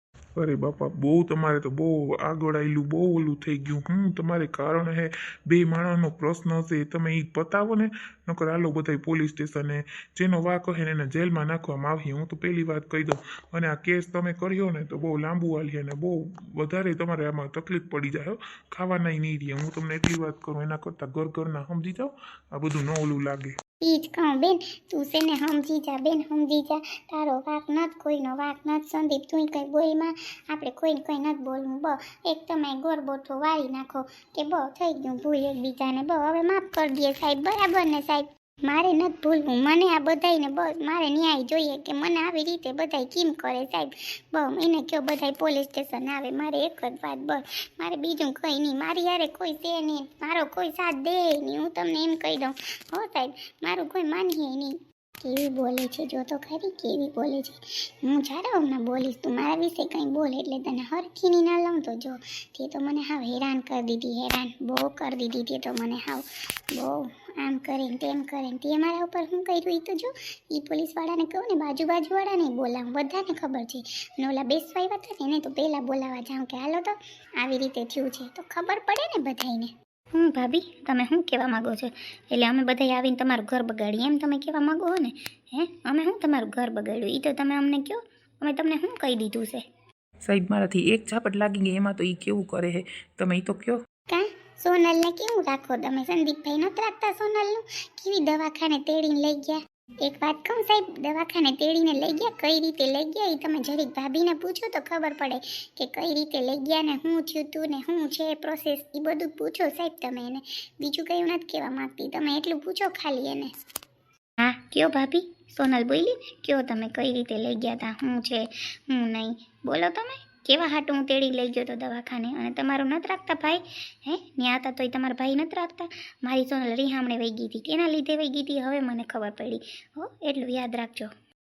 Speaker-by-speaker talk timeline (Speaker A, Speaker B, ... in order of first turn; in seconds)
Speaker A: 0.4-23.6
Speaker B: 23.8-79.7, 82.6-83.5, 94.1-113.5
Speaker C: 80.2-89.6, 114.4-131.1
Speaker D: 90.2-93.8